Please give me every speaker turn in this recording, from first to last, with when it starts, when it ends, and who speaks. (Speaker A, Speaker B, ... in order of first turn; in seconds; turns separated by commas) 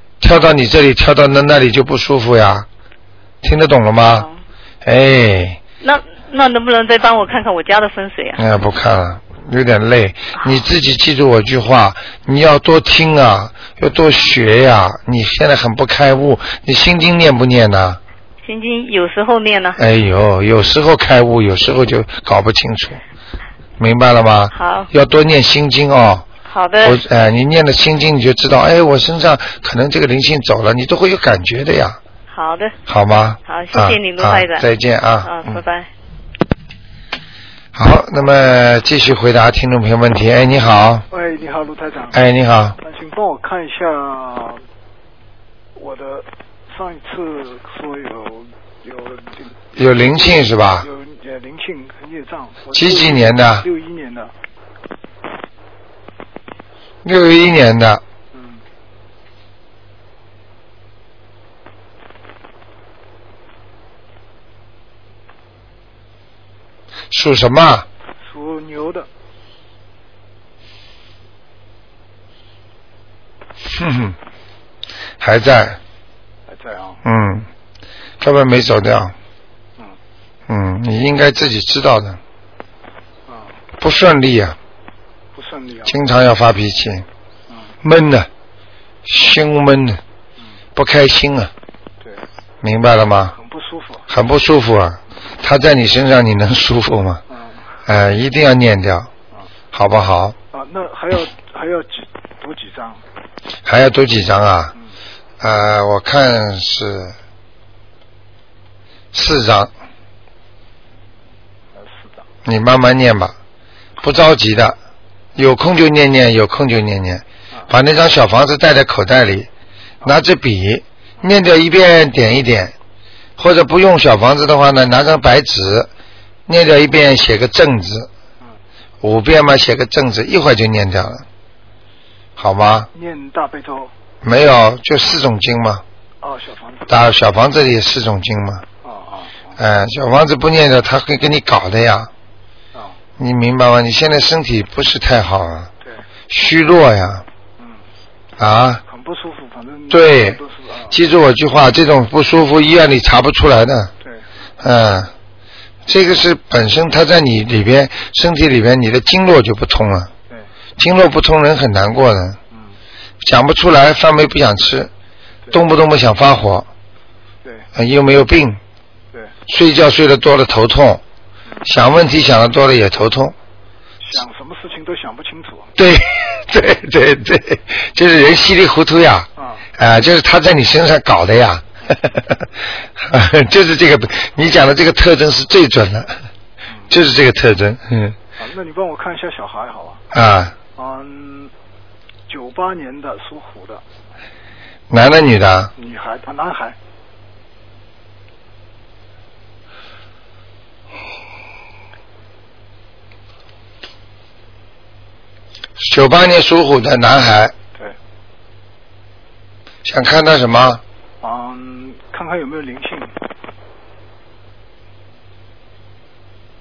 Speaker A: 0.2-2.7, Speaker A: 3.4-4.3, Speaker A: 4.8-5.6, Speaker B: 5.8-8.4, Speaker A: 8.4-18.0, Speaker B: 18.4-19.8, Speaker A: 19.8-23.0, Speaker A: 23.8-26.2, Speaker B: 24.5-24.9, Speaker B: 26.5-27.0, Speaker A: 26.8-32.0, Speaker B: 32.3-32.7, Speaker A: 32.9-35.6, Speaker B: 33.5-34.7, Speaker B: 35.2-35.9, Speaker A: 37.7-41.0, Speaker C: 41.1-42.2, Speaker A: 42.1-42.8, Speaker C: 42.8-44.6, Speaker C: 45.8-54.3, Speaker A: 49.8-50.9, Speaker A: 52.7-53.6, Speaker A: 57.0-58.0, Speaker C: 58.3-58.6, Speaker A: 67.1-67.9, Speaker C: 68.2-69.1, Speaker A: 73.7-74.2, Speaker A: 75.2-75.8, Speaker C: 76.5-77.0, Speaker A: 77.0-77.5, Speaker A: 78.2-79.1, Speaker A: 80.5-82.2, Speaker C: 83.2-83.6, Speaker A: 83.8-84.6, Speaker C: 85.3-86.0, Speaker A: 85.8-87.1, Speaker C: 87.5-87.7, Speaker A: 87.8-88.3, Speaker A: 89.0-90.0, Speaker A: 90.8-91.5, Speaker A: 92.6-93.3, Speaker C: 93.3-94.0, Speaker A: 94.1-97.2, Speaker C: 97.3-97.7, Speaker A: 97.8-99.1, Speaker A: 99.7-100.3, Speaker C: 100.5-103.0, Speaker A: 103.6-104.7, Speaker A: 105.4-107.1, Speaker A: 109.1-109.7, Speaker C: 111.7-112.2, Speaker A: 112.4-113.3, Speaker A: 114.0-114.8, Speaker A: 115.3-119.5, Speaker A: 120.0-122.7, Speaker A: 123.4-125.9, Speaker A: 126.5-128.1, Speaker A: 129.0-131.2, Speaker A: 132.4-132.9, Speaker C: 132.9-133.9, Speaker A: 134.2-135.8, Speaker C: 136.2-137.0, Speaker A: 136.9-138.7, Speaker C: 138.8-139.6, Speaker A: 139.6-142.1, Speaker A: 143.2-145.7, Speaker A: 146.3-147.2, Speaker C: 147.6-147.8, Speaker A: 148.4-148.8, Speaker C: 148.8-151.0, Speaker A: 149.9-150.4, Speaker A: 150.9-153.9, Speaker A: 154.6-155.1, Speaker A: 155.8-160.1, Speaker A: 160.8-162.4, Speaker C: 162.5-162.8, Speaker A: 163.2-164.9, Speaker A: 165.5-166.7, Speaker A: 167.7-168.6, Speaker A: 169.5-171.0, Speaker A: 171.6-173.3, Speaker C: 174.0-175.7, Speaker A: 175.8-186.1, Speaker C: 179.4-179.6, Speaker A: 186.9-188.2, Speaker C: 188.4-190.0, Speaker A: 190.1-190.6, Speaker C: 190.7-191.5, Speaker C: 192.3-193.8, Speaker A: 194.9-195.7, Speaker C: 195.8-196.8, Speaker A: 205.8-207.5, Speaker A: 209.8-210.8, Speaker C: 211.2-213.1